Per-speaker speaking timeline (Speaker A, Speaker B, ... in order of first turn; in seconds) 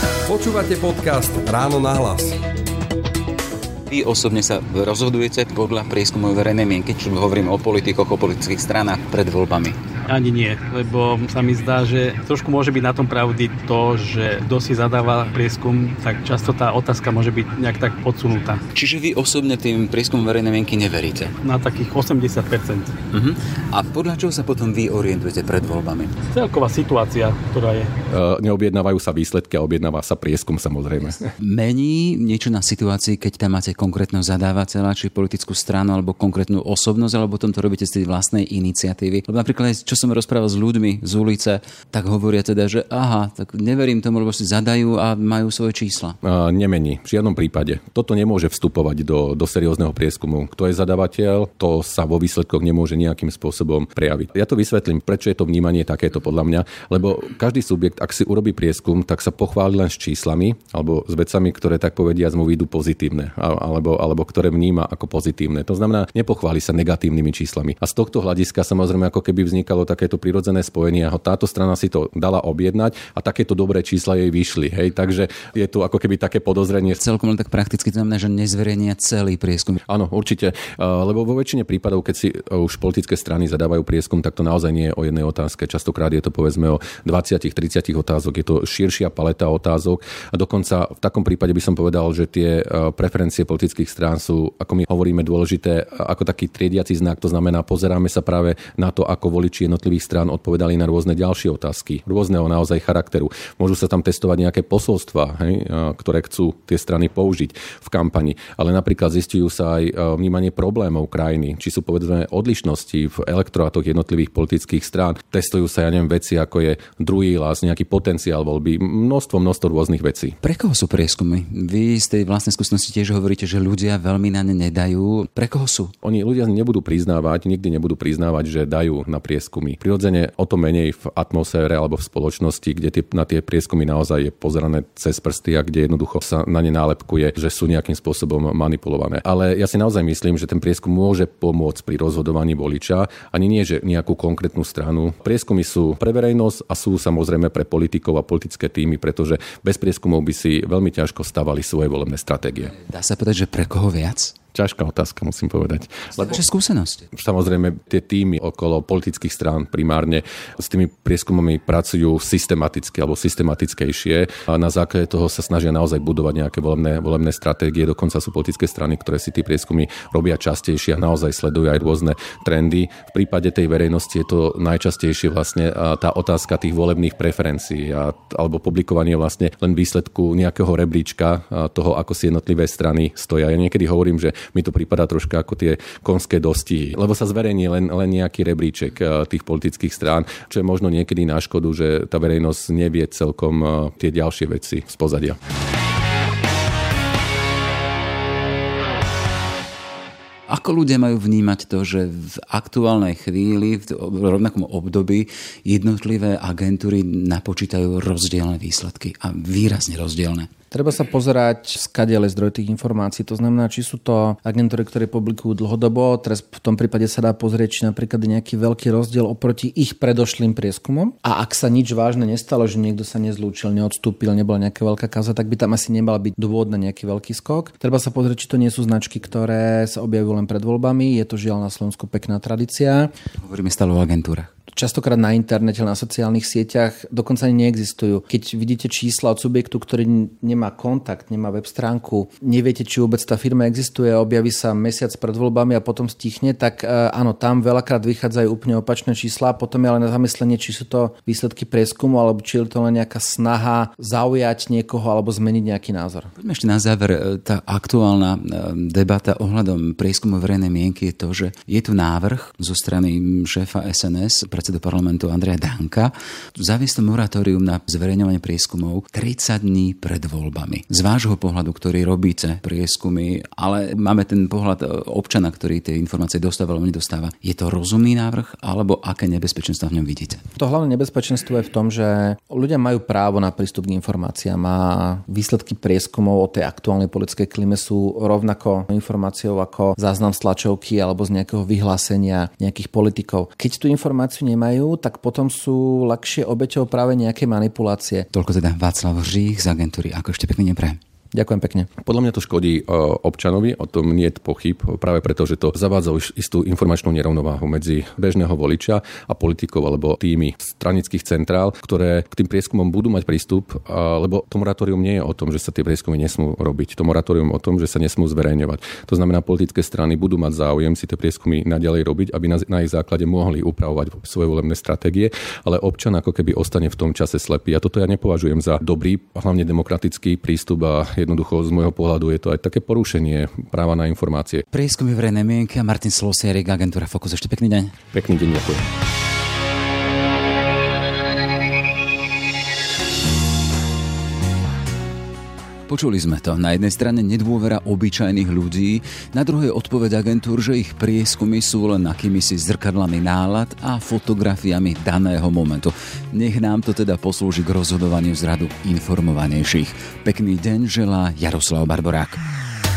Speaker A: 0.3-2.4
Speaker B: 3.9-9.8, 18.7-21.3, 23.1-26.1, 31.4-46.2, 77.0-79.8, 120.4-125.9, 152.8-154.3, 156.2-157.0, 200.5-210.5, 233.4-234.5, 256.4-280.4, 298.3-301.0, 334.7-337.9, 345.9-362.4
Speaker C: 10.1-18.6, 21.4-22.9, 26.3-27.9
Speaker D: 28.1-31.3, 46.2-77.0, 79.9-120.4, 126.0-152.8, 154.5-156.4, 157.2-195.4, 302.1-334.6, 338.1-338.9
Speaker E: 210.7-233.1, 234.8-256.3, 280.6-298.3, 301.3-301.9